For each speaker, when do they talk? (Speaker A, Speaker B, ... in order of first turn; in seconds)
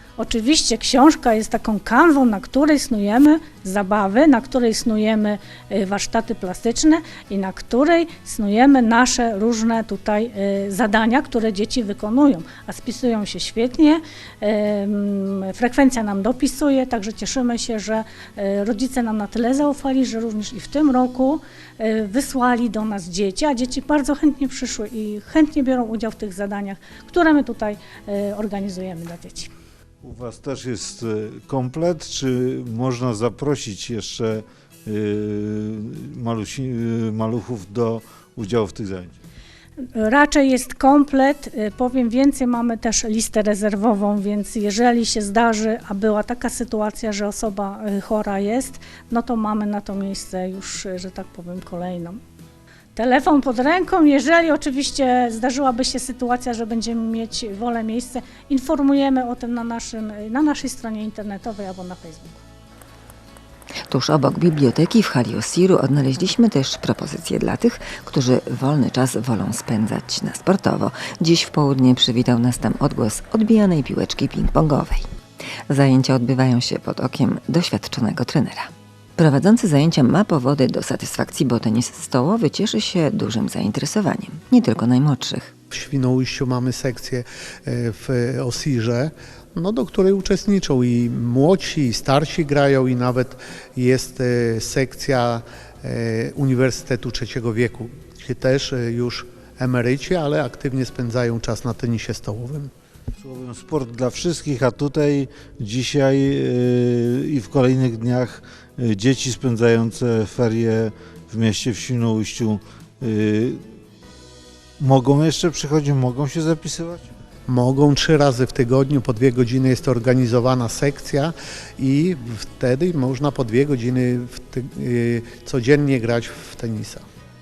Speaker A: 0.2-29.5, 40.0-52.2, 53.0-62.4
Speaker B: 30.0-39.2, 103.2-113.6, 114.8-117.1
Speaker C: 63.9-75.1, 75.7-85.5
Speaker D: 85.7-102.7, 117.5-127.0